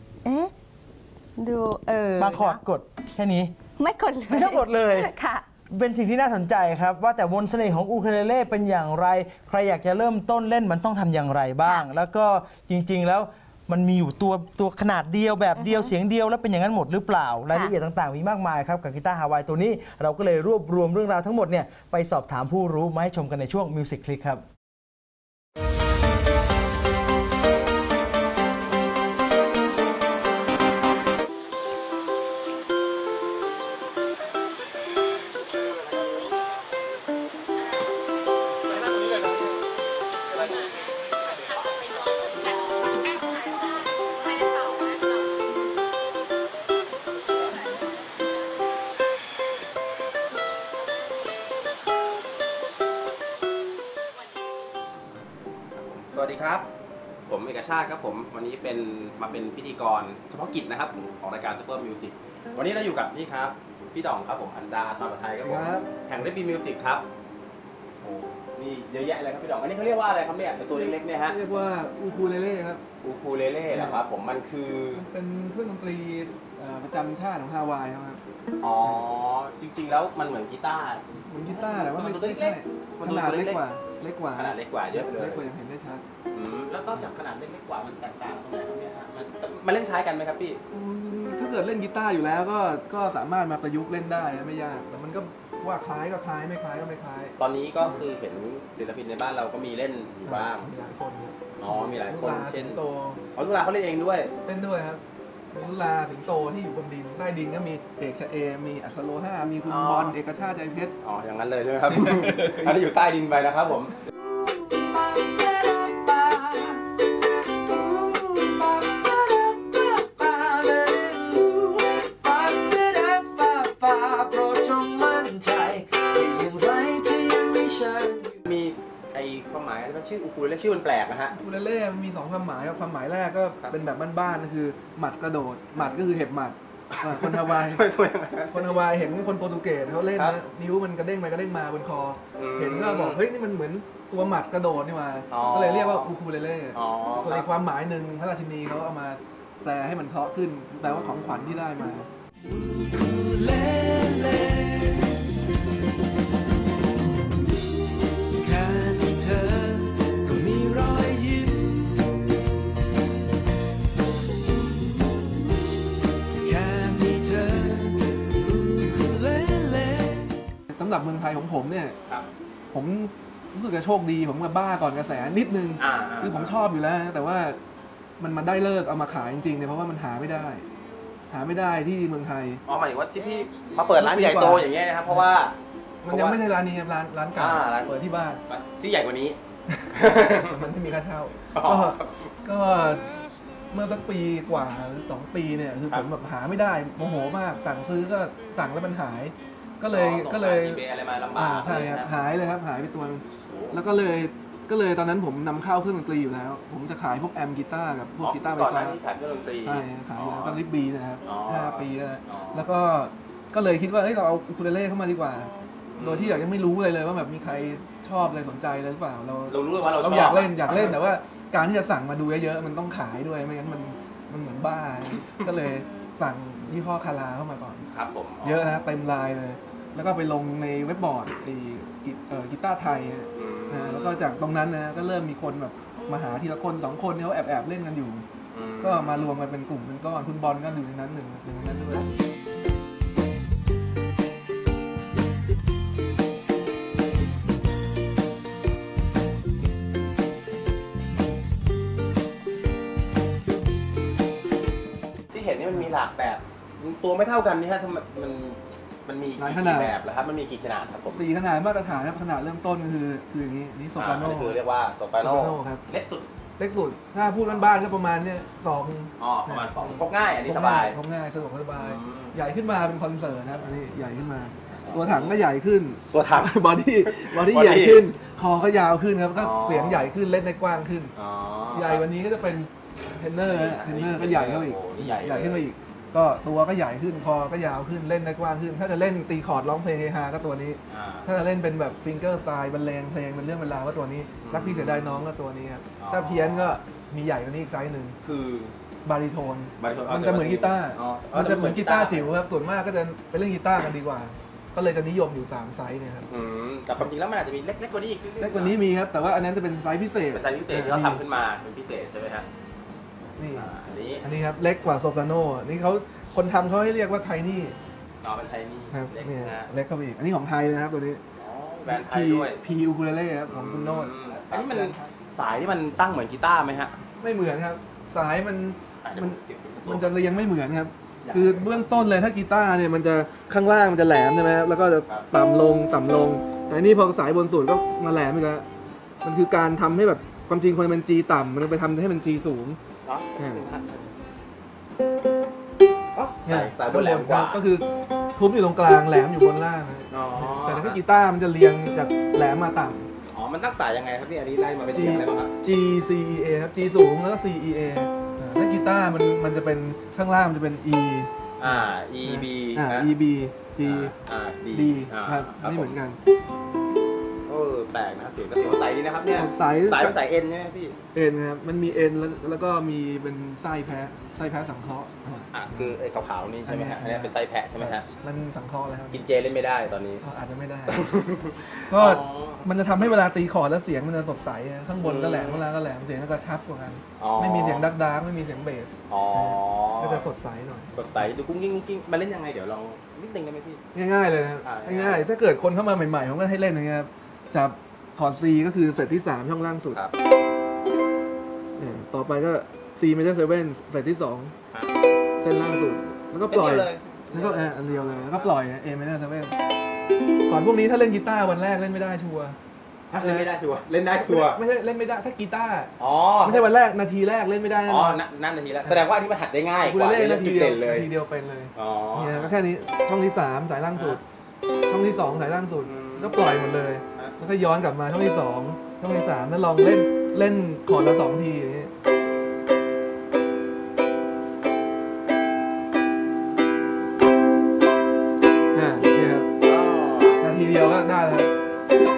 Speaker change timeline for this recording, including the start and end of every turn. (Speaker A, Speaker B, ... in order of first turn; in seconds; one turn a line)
Speaker A: 0.2-0.5
Speaker A: 1.4-2.6
Speaker B: 2.2-3.5
Speaker A: 3.8-5.5
Speaker B: 4.3-5.1
Speaker B: 5.7-24.4
Speaker A: 15.6-15.9
Speaker A: 43.2-43.7
Speaker A: 44.5-44.9
Speaker C: 55.8-56.7
Speaker C: 57.3-67.0
Speaker D: 65.4-66.0
Speaker C: 68.0-71.3
Speaker D: 70.7-72.8
Speaker C: 73.0-75.0
Speaker D: 73.7-74.0
Speaker D: 74.9-78.2
Speaker C: 78.6-83.6
Speaker D: 81.3-86.0
Speaker C: 84.4-85.5
Speaker C: 86.3-90.6
Speaker D: 90.7-97.4
Speaker C: 97.4-100.7
Speaker D: 100.2-103.2
Speaker C: 101.6-102.8
Speaker C: 103.4-104.3
Speaker D: 104.4-105.0
Speaker D: 105.5-110.9
Speaker C: 109.7-110.2
Speaker C: 111.0-114.0
Speaker E: 114.2-116.8
Speaker E: 117.6-128.3
Speaker C: 128.4-131.3
Speaker D: 131.3-137.8
Speaker C: 137.0-138.7
Speaker D: 138.5-152.1
Speaker C: 142.4-143.2
Speaker C: 145.3-146.1
Speaker C: 146.7-147.5
Speaker C: 150.8-151.6
Speaker E: 152.5-155.0
Speaker E: 158.4-161.8
Speaker E: 166.4-170.4
Speaker D: 170.7-172.0
Speaker D: 172.7-177.6
Speaker C: 175.8-176.5
Speaker D: 178.2-180.7
Speaker D: 181.3-182.6
Speaker C: 182.7-185.6
Speaker D: 183.8-185.3
Speaker D: 186.0-188.4
Speaker C: 186.1-186.4
Speaker C: 187.4-188.0
Speaker C: 188.5-189.4
Speaker D: 189.7-193.1
Speaker C: 189.9-190.6
Speaker C: 191.5-192.3
Speaker D: 193.7-200.8
Speaker C: 199.9-202.1
Speaker D: 201.4-209.0
Speaker C: 203.5-203.8
Speaker C: 208.2-210.6
Speaker D: 209.6-227.8
Speaker C: 211.2-212.7
Speaker C: 215.9-216.5
Speaker C: 219.5-220.9
Speaker C: 227.9-228.7
Speaker D: 228.4-238.2
Speaker C: 233.4-234.3
Speaker C: 238.5-239.2
Speaker D: 238.8-242.1
Speaker C: 255.3-261.3
Speaker D: 259.4-259.9
Speaker D: 261.1-264.6
Speaker C: 264.0-266.3
Speaker D: 265.2-265.8
Speaker D: 266.6-281.1
Speaker C: 267.5-267.7
Speaker C: 269.2-271.0
Speaker C: 271.8-272.3
Speaker C: 274.8-275.4
Speaker C: 276.1-278.1
Speaker C: 279.4-280.1
Speaker C: 281.2-282.5
Speaker D: 281.7-298.2
Speaker C: 283.4-285.7
Speaker C: 290.9-291.3
Speaker C: 294.4-295.3
Speaker C: 296.0-296.8
Speaker C: 298.2-298.7
Speaker D: 299.0-306.3
Speaker C: 299.8-302.3
Speaker C: 306.3-308.8
Speaker D: 308.4-311.2
Speaker C: 310.3-312.5
Speaker D: 313.4-317.8
Speaker C: 313.5-314.2
Speaker C: 318.2-319.7
Speaker D: 318.9-321.2
Speaker C: 321.4-322.6
Speaker D: 321.8-325.2
Speaker C: 323.5-327.0
Speaker D: 327.2-338.7
Speaker C: 329.0-330.3
Speaker C: 331.2-332.0
Speaker D: 339.2-342.8
Speaker C: 343.1-344.1
Speaker D: 343.4-343.7
Speaker C: 346.1-347.6
Speaker D: 346.4-353.1
Speaker C: 350.1-351.0
Speaker C: 353.3-355.5
Speaker D: 354.9-364.1
Speaker C: 361.6-363.1
Speaker C: 363.8-366.0
Speaker D: 364.7-366.2
Speaker C: 367.5-371.0
Speaker D: 369.3-370.2
Speaker D: 371.1-375.9
Speaker C: 375.5-378.1
Speaker D: 376.6-379.3
Speaker C: 379.1-380.2
Speaker D: 380.2-381.1
Speaker C: 380.9-383.1
Speaker D: 381.9-391.2
Speaker C: 385.0-385.6
Speaker C: 387.2-387.9
Speaker C: 389.1-390.3
Speaker C: 390.9-393.8
Speaker D: 393.9-400.0
Speaker C: 394.6-395.3
Speaker D: 401.8-404.5
Speaker D: 405.4-409.6
Speaker C: 406.5-408.5
Speaker D: 410.5-412.6
Speaker C: 413.1-414.6
Speaker D: 413.2-413.5
Speaker D: 414.2-418.2
Speaker C: 416.0-416.7
Speaker C: 417.9-421.1
Speaker D: 419.8-424.2
Speaker C: 421.8-422.6
Speaker D: 424.9-431.9
Speaker C: 425.9-427.3
Speaker D: 438.7-439.5
Speaker C: 439.6-440.5
Speaker D: 440.4-441.5